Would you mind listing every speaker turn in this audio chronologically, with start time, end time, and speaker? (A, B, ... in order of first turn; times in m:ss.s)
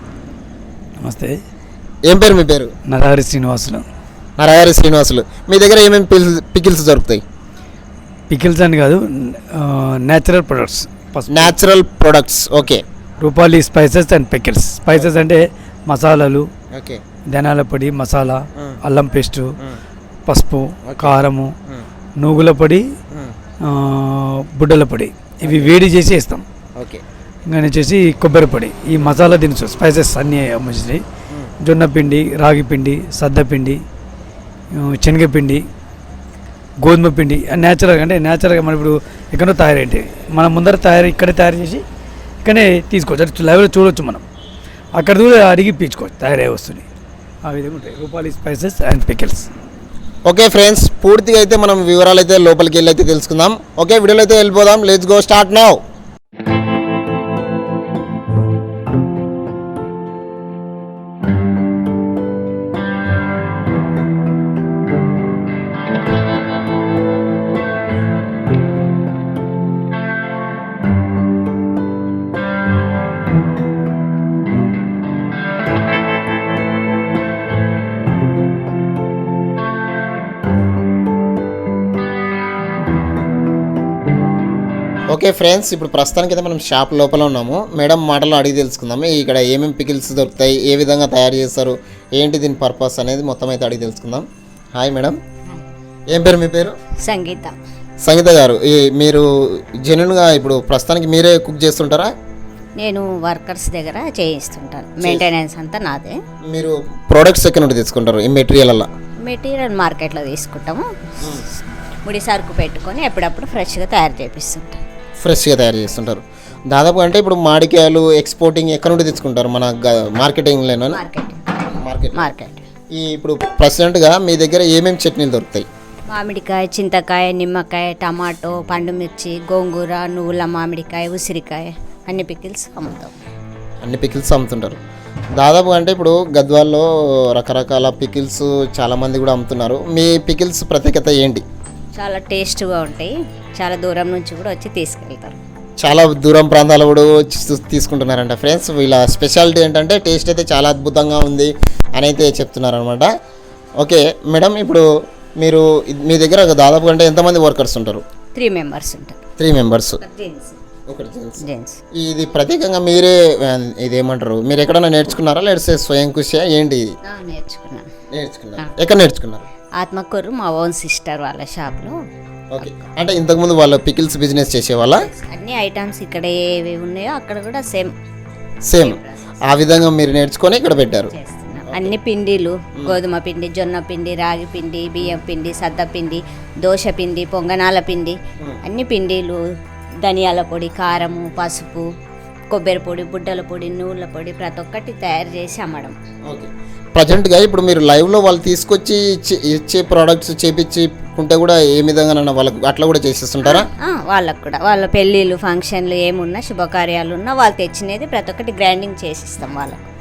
0:01.0-0:01.3 A
0:02.1-0:02.7 B
0:02.9-0:03.8 A
0:04.4-0:07.2 B
0:08.3-0:11.5 A
0:11.3-0:12.8 B
0:13.2-0:16.5 A
0:16.7-0:17.0 B
0:17.3-0:19.5 A
0:18.6-0:18.8 B
0:20.3-0:21.5 A
0:20.8-0:21.9 B
0:22.2-0:22.8 A
0:23.1-0:23.4 B
0:23.6-0:26.4 A
0:25.4-0:25.7 B
0:26.8-0:27.0 B
0:27.5-0:31.0 A
0:31.6-0:33.8 A
0:34.8-0:35.6 A
0:36.8-0:41.8 A
0:42.4-0:44.2 A
0:45.0-0:46.8 A
0:47.4-0:49.5 A
0:50.2-0:55.8 B
1:25.1-1:35.2 B
1:36.1-1:36.8 B
1:37.0-1:37.6 C
1:38.0-1:42.1 B
1:42.8-1:46.2 C
1:45.0-1:45.3 B
1:46.5-1:48.9 B
1:49.2-1:51.3 C
1:51.2-1:51.5 B
1:52.0-1:54.8 C
1:55.2-2:01.0 B
2:00.9-2:02.6 C
2:01.8-2:02.3 B
2:02.9-2:05.6 B
2:06.1-2:13.1 C
2:13.8-2:14.8 B
2:15.4-2:21.4 B
2:21.9-2:25.4 C
2:25.8-2:33.1 B
2:33.8-2:34.8 B
2:35.4-2:38.0 B
2:38.3-2:39.2 C
2:39.4-2:40.0 B
2:40.0-2:40.6 C
2:40.9-2:46.9 B
2:41.4-2:41.8 C
2:47.0-2:47.9 C
2:48.1-2:49.5 B
2:49.8-2:51.9 C
2:52.5-2:55.1 B
2:55.0-2:57.9 C
2:58.6-3:01.1 B
2:58.8-2:59.4 C
3:01.1-3:09.4 C
3:10.0-3:11.8 C
3:12.5-3:15.9 C
3:16.3-3:23.7 B
3:23.4-3:29.8 C